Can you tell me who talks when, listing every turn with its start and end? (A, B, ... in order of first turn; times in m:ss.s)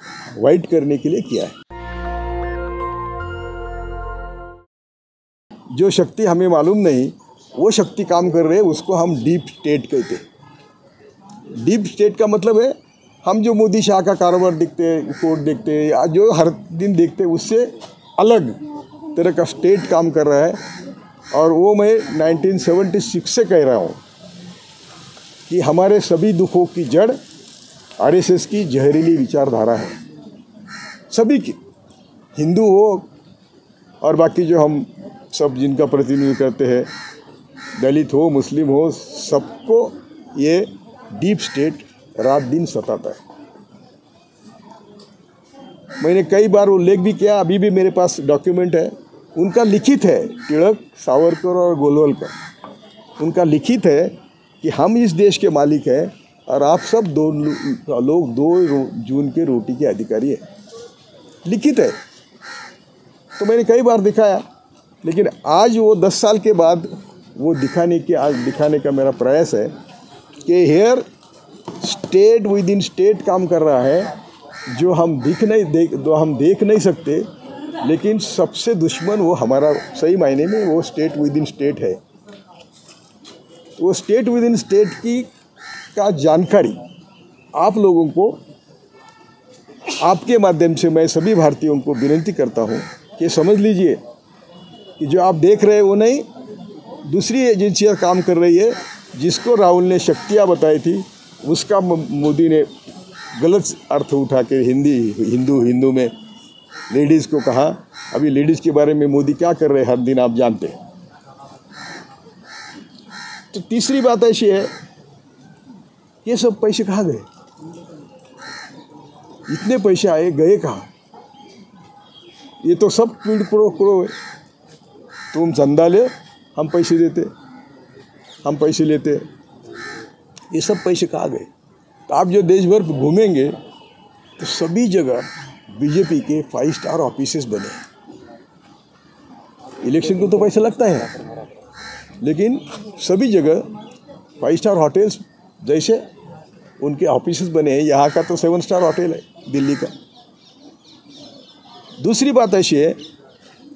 0:00.4-0:01.6 A
0:05.7-0:10.2 A
0:11.6-0:18.6 A
0:19.1-0:20.6 A
0:21.3-0:24.0 A
0:25.5-0:27.2 A
0:28.0-0:30.0 A
0:31.1-0:31.6 A
0:32.4-0:33.1 A
0:34.0-0:36.9 A
0:37.8-0:43.2 A
0:46.0-0:52.3 A
0:53.2-1:00.4 A
1:01.4-1:02.0 A
1:03.4-1:04.4 A
1:05.0-1:09.7 A
1:10.4-1:11.0 A
1:11.7-1:14.1 A
1:14.7-1:17.2 A
1:17.8-1:22.0 A
1:23.8-1:25.3 A
1:25.9-1:26.8 A
1:27.5-1:28.4 A
1:30.0-1:34.0 A
1:35.0-1:36.2 A
1:37.1-1:42.7 A
1:43.4-1:46.1 A
1:46.9-1:50.8 A
1:53.5-1:54.7 A
1:56.2-1:57.2 A
1:59.5-2:00.9 A
2:02.6-2:04.1 A
2:05.3-2:07.3 A
2:08.4-2:09.2 A
2:10.5-2:11.5 A
2:12.1-2:13.6 A
2:14.4-2:17.8 A
2:19.8-2:21.4 A
2:22.2-2:23.7 A
2:24.4-2:26.0 A
2:26.8-2:29.9 A
2:32.0-2:33.0 A